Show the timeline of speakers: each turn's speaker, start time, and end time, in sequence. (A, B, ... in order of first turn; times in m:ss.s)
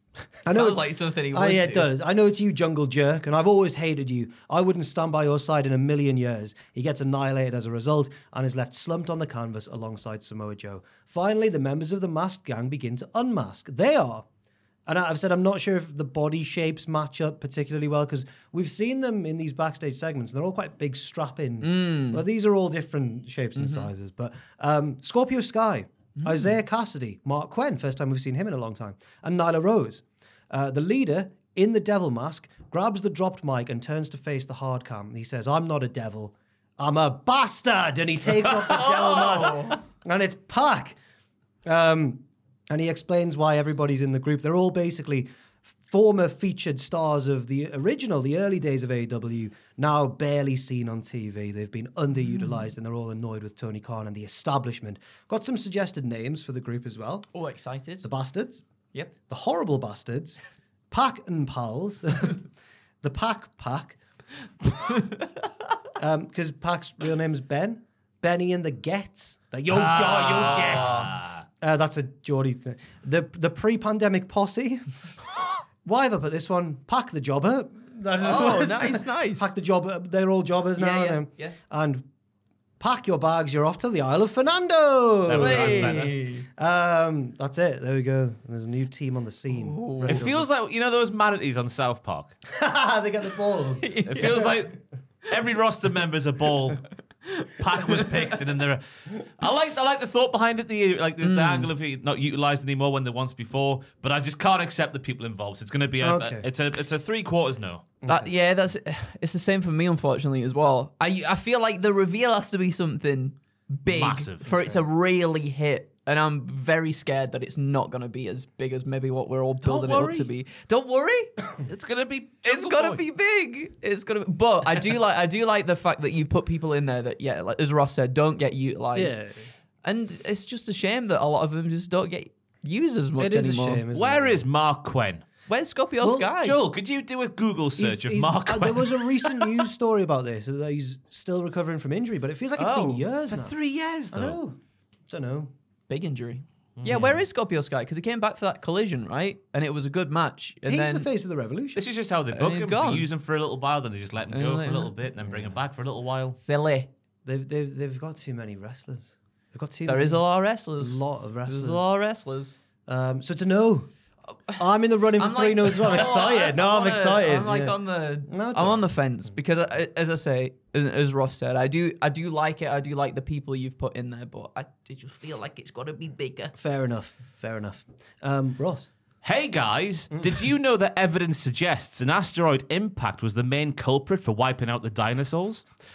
0:00.4-0:14.3 A
0:00.5-0:01.9 B
0:14.9-0:41.0 A
0:21.6-0:22.2 B
0:23.6-0:23.9 B
0:26.2-0:26.5 B
0:38.6-0:39.8 B
0:41.6-0:45.3 A
0:45.8-0:57.3 A
0:52.3-0:52.6 B
0:57.3-0:58.1 B
0:58.0-0:58.6 A
0:59.3-1:02.4 A
1:03.0-1:04.0 A
1:06.0-1:11.1 A
1:09.7-1:11.4 C
1:10.4-1:11.1 B
1:11.6-1:14.8 A
1:15.8-1:22.1 A
1:18.2-1:19.5 B
1:20.8-1:21.6 B
1:22.8-1:26.0 A
1:25.3-1:26.2 C
1:25.4-1:26.5 B
1:26.6-1:30.5 A
1:29.5-1:30.2 B
1:30.1-1:32.4 C
1:32.5-1:34.5 A
1:33.8-1:34.5 B
1:34.1-1:34.8 C
1:35.3-1:36.8 C
1:37.3-1:38.1 B
1:37.6-1:47.9 C
1:41.2-1:41.7 B
1:46.0-1:46.5 A
1:48.0-1:48.3 A
1:48.1-2:01.4 B
1:53.9-1:54.5 C
1:54.5-1:54.8 A
1:59.6-2:00.3 C
2:01.6-2:03.0 C
2:02.4-2:09.2 B
2:08.9-2:09.5 A
2:09.8-2:13.8 B
2:13.2-2:14.4 A
2:13.9-2:15.2 C
2:15.5-2:16.6 B
2:16.0-2:16.3 A
2:16.4-2:19.0 C
2:17.8-2:23.6 A
2:22.6-2:23.0 B
2:23.3-2:24.4 C
2:24.1-2:25.5 A
2:25.9-2:31.1 B
2:26.8-2:27.1 C
2:26.9-2:27.2 A
2:30.7-2:31.8 A
2:31.8-2:36.4 C
2:32.3-2:33.1 B
2:34.3-2:34.9 B
2:35.2-2:35.6 A
2:36.4-2:36.9 B
2:37.2-2:40.2 A
2:39.9-2:42.6 B
2:40.8-2:41.8 A
2:42.9-2:43.9 A
2:44.6-2:49.3 A
2:45.2-2:56.5 B
2:56.6-2:58.9 A
2:59.2-3:05.7 C